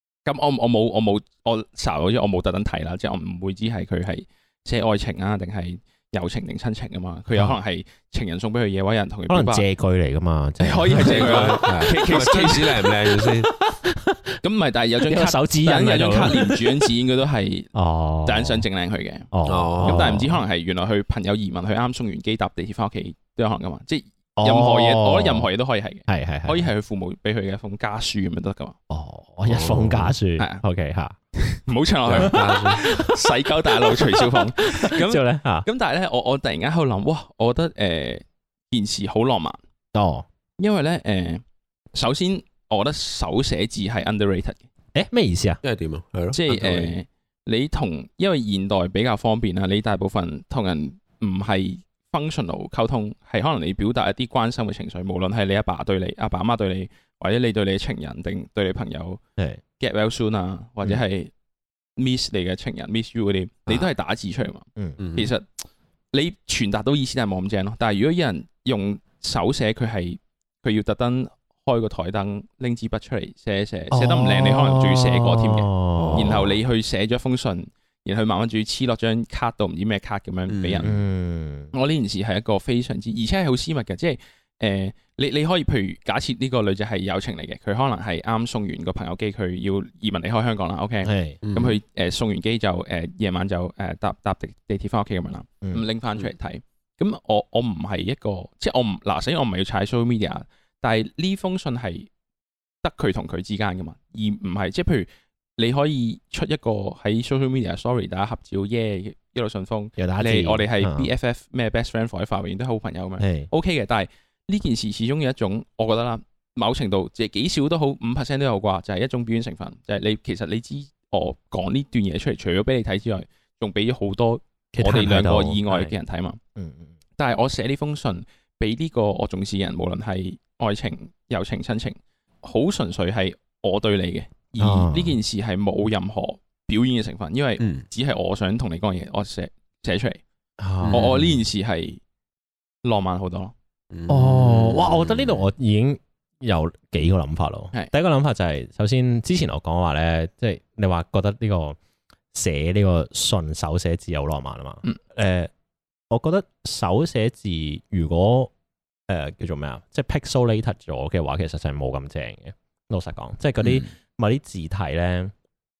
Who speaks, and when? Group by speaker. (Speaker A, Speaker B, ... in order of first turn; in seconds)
Speaker A: 0.2-9.7, 10.6-12.9, 14.4-17.7, 18.2-19.3, 19.8-28.8, 31.4-39.6, 40.6-41.4, 41.9-44.6, 46.3-59.2, 59.8-61.3, 62.0-65.5, 66.1-81.0, 81.7-102.1, 102.8-126.4, 127.2-140.2, 140.9-142.0, 142.8-143.5
Speaker B: 9.3-11.9, 13.2-14.4, 15.0-16.9, 17.7-18.7, 19.3-20.4, 24.4-25.5, 26.1-26.7, 28.9-31.2, 32.1-33.2, 33.7-35.7, 39.9-40.3, 45.0-45.6, 73.9-76.4, 80.8-81.7, 91.0-91.4, 110.0-111.1, 113.2-113.5, 124.7-126.0, 126.6-126.9, 134.6-135.2, 140.6-141.3, 144.1-151.8, 152.3-155.5, 156.1-158.5, 159.1-165.3
Speaker C: 11.1-13.5, 19.5-20.2, 29.5-30.1, 32.1-32.8, 45.6-46.9, 65.0-65.3, 76.0-76.6, 80.5-80.9, 91.4-91.8, 137.6-137.8, 140.9-141.3, 143.9-145.5, 163.6-163.9